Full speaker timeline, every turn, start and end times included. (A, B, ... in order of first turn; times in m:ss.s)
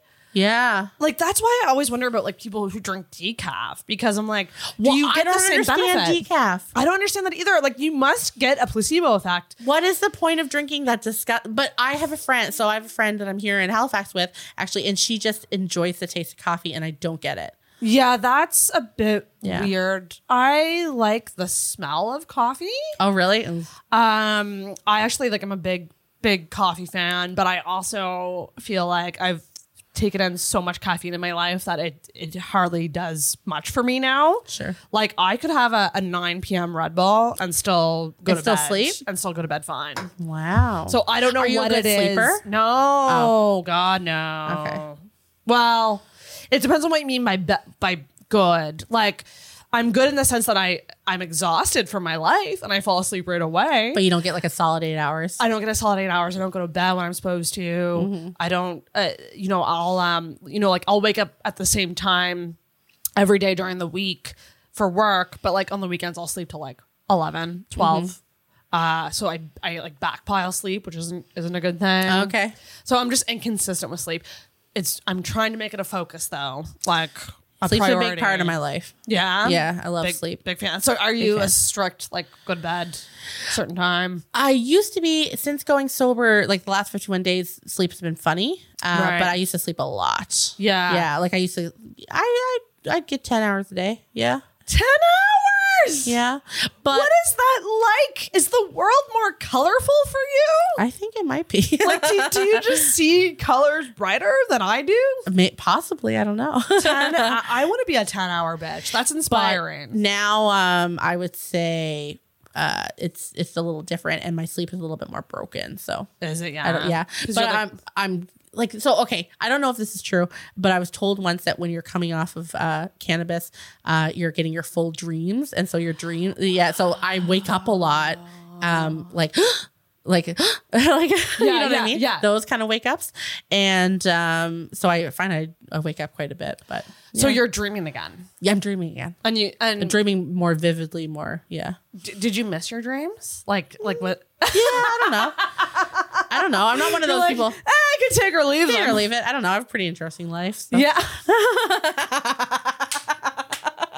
0:00.3-0:00.9 A
0:01.0-0:06.2 B
0:04.8-0:06.7 A
0:06.7-0:09.6 B
0:09.6-0:17.5 A
0:17.8-0:23.0 B
0:19.4-0:19.7 A
0:23.0-0:23.7 A
0:23.9-0:40.1 B
0:34.5-0:34.8 A
0:38.2-0:39.0 A
0:40.2-0:42.4 A
0:40.9-0:54.0 B
0:43.0-0:43.3 A
0:44.4-0:44.8 A
0:53.9-0:55.4 A
0:55.4-1:02.6 B
0:58.0-0:58.3 A
1:03.2-1:08.2 B
1:07.8-1:08.1 A
1:08.7-1:12.3 B
1:12.0-1:12.5 A
1:12.8-1:24.2 B
1:17.6-1:20.4 A
1:21.2-1:21.5 A
1:24.3-1:34.4 A
1:28.9-1:29.4 B
1:30.6-1:31.1 B
1:34.7-1:36.2 B
1:36.0-1:37.1 A
1:36.9-1:40.8 B
1:40.8-1:42.9 A
1:41.8-1:45.3 B
1:45.3-1:47.4 A
1:46.8-1:50.0 B
1:49.3-1:56.1 A
1:56.2-1:57.6 B
1:56.6-2:17.4 A
2:11.4-2:12.3 B
2:17.1-2:18.3 B
2:18.4-2:19.2 A
2:19.2-2:20.0 B
2:19.8-2:21.8 A
2:21.9-2:26.2 B
2:24.5-2:25.4 A
2:26.3-2:27.6 A
2:26.8-2:29.0 B
2:28.7-2:33.2 A
2:30.7-2:31.2 B